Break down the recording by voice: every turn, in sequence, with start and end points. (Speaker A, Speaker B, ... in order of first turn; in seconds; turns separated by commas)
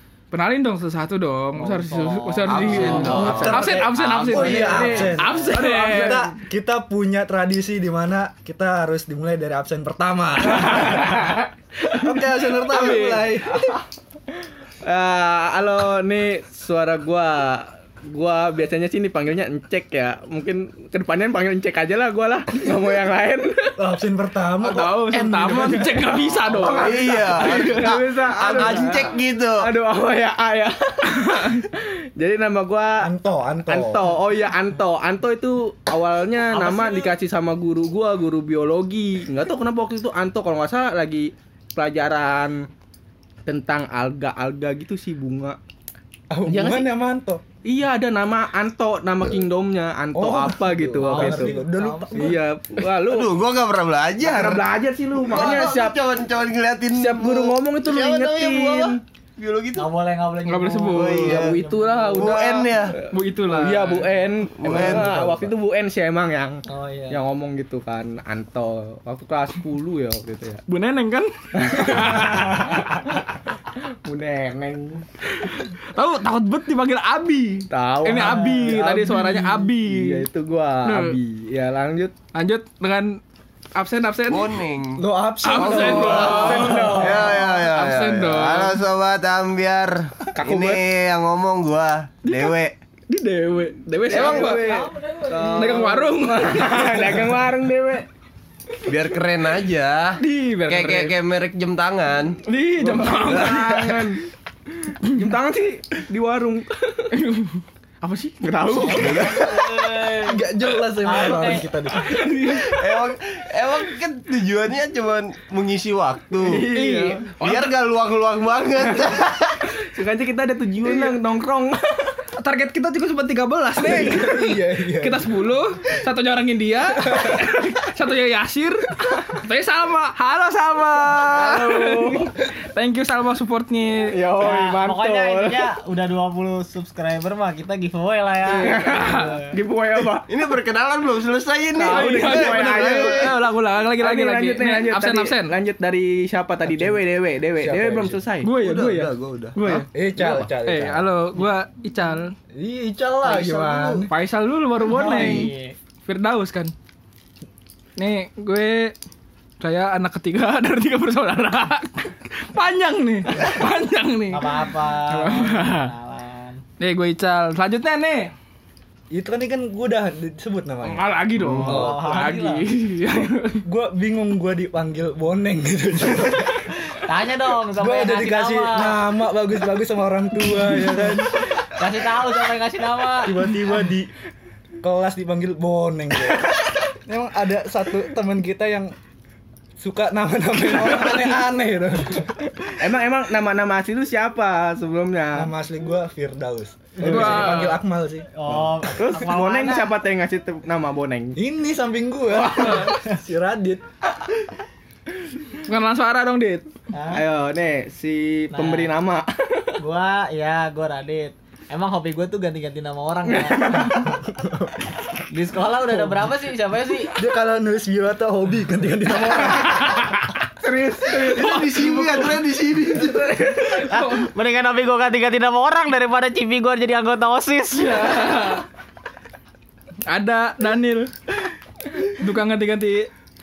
Speaker A: 0.3-6.3, Speaker B: 1.6-3.5, Speaker C: 2.5-11.3, Speaker D: 2.5-6.3, Speaker E: 2.6-5.0, Speaker A: 10.6-13.4, Speaker C: 11.9-13.6, Speaker D: 13.4-13.8, Speaker D: 14.8-23.8, Speaker C: 23.8-26.1, Speaker A: 24.6-29.1, Speaker D: 25.5-25.9, Speaker D: 26.4-33.1, Speaker E: 26.6-29.7, Speaker A: 31.2-31.6, Speaker C: 33.0-34.1, Speaker D: 33.7-42.6, Speaker D: 43.5-45.6, Speaker C: 46.3-47.4, Speaker D: 46.5-46.9, Speaker D: 47.6-51.6, Speaker C: 50.1-52.4, Speaker B: 51.1-52.4, Speaker D: 52.1-53.3, Speaker E: 53.0-59.9, Speaker D: 54.2-56.0, Speaker D: 56.9-59.0, Speaker B: 59.8-62.4, Speaker A: 60.5-61.4, Speaker E: 60.9-61.6, Speaker D: 61.2-70.6, Speaker E: 62.1-63.0, Speaker A: 63.1-64.1, Speaker E: 64.5-65.2, Speaker C: 64.6-65.5, Speaker B: 66.7-67.2, Speaker A: 70.7-73.0, Speaker D: 71.7-72.3, Speaker D: 73.8-75.0, Speaker A: 75.3-80.3, Speaker D: 77.7-82.1, Speaker B: 78.2-78.5, Speaker C: 78.7-79.1, Speaker A: 80.8-81.2, Speaker A: 82.3-83.2, Speaker A: 83.8-84.6, Speaker E: 84.3-92.7, Speaker C: 85.0-87.1, Speaker A: 85.4-88.8, Speaker D: 86.0-87.5, Speaker B: 86.6-87.4, Speaker D: 90.3-90.8, Speaker A: 92.2-92.5, Speaker A: 93.1-94.6, Speaker D: 94.1-98.1, Speaker B: 94.1-96.0, Speaker A: 95.4-97.5, Speaker E: 98.9-102.4, Speaker A: 100.2-101.2, Speaker A: 102.5-104.1, Speaker E: 103.2-103.8, Speaker D: 103.2-104.2, Speaker D: 105.1-107.1, Speaker A: 107.1-108.4, Speaker D: 108.4-110.2, Speaker B: 108.8-110.4, Speaker E: 108.9-109.5, Speaker C: 110.3-112.1, Speaker B: 111.0-111.8, Speaker A: 112.0-112.7, Speaker E: 112.4-116.7, Speaker D: 116.5-117.4, Speaker A: 116.7-117.7, Speaker E: 117.4-119.6, Speaker D: 119.9-122.2, Speaker A: 120.8-121.1, Speaker A: 122.4-134.2, Speaker C: 123.8-125.3, Speaker C: 127.0-127.4, Speaker D: 131.1-132.3, Speaker D: 134.1-135.7, Speaker B: 134.4-139.6, Speaker A: 138.5-139.3, Speaker D: 138.6-140.3, Speaker E: 140.3-143.4, Speaker D: 141.8-143.3, Speaker A: 141.8-145.5, Speaker D: 144.0-148.5, Speaker C: 146.7-147.0, Speaker C: 147.6-148.3, Speaker A: 148.4-152.3, Speaker E: 148.6-149.6, Speaker C: 149.9-151.4, Speaker C: 152.5-154.1, Speaker E: 153.3-153.9, Speaker A: 154.1-155.5, Speaker E: 154.9-155.5, Speaker B: 154.9-155.8, Speaker A: 156.1-156.7, Speaker A: 158.0-158.9, Speaker A: 159.6-165.9, Speaker B: 164.3-166.6, Speaker A: 166.8-168.3, Speaker C: 169.1-171.1, Speaker A: 170.8-173.6, Speaker E: 171.4-171.8, Speaker C: 171.6-172.0, Speaker B: 171.6-172.7, Speaker C: 173.7-176.7, Speaker B: 177.0-179.0, Speaker C: 177.8-181.4, Speaker B: 181.6-183.4, Speaker C: 183.2-184.1, Speaker C: 184.8-188.9, Speaker C: 189.8-192.7, Speaker A: 190.8-191.2, Speaker D: 192.8-195.5, Speaker C: 195.3-198.3, Speaker A: 197.0-197.8, Speaker B: 197.0-197.6, Speaker B: 198.3-199.9, Speaker D: 198.9-201.4, Speaker C: 201.4-203.8, Speaker D: 202.4-202.9, Speaker A: 205.6-206.7, Speaker B: 206.9-207.2, Speaker D: 207.1-209.8, Speaker B: 208.5-208.9, Speaker B: 209.8-214.1, Speaker D: 213.3-213.8, Speaker A: 213.6-213.9, Speaker C: 214.1-214.8, Speaker B: 215.3-217.1, Speaker C: 217.2-220.1, Speaker A: 219.6-220.2, Speaker D: 220.6-221.8, Speaker E: 221.1-223.4, Speaker A: 221.3-224.3, Speaker B: 223.9-228.3, Speaker A: 227.8-228.7, Speaker A: 230.1-231.1, Speaker A: 232.0-233.1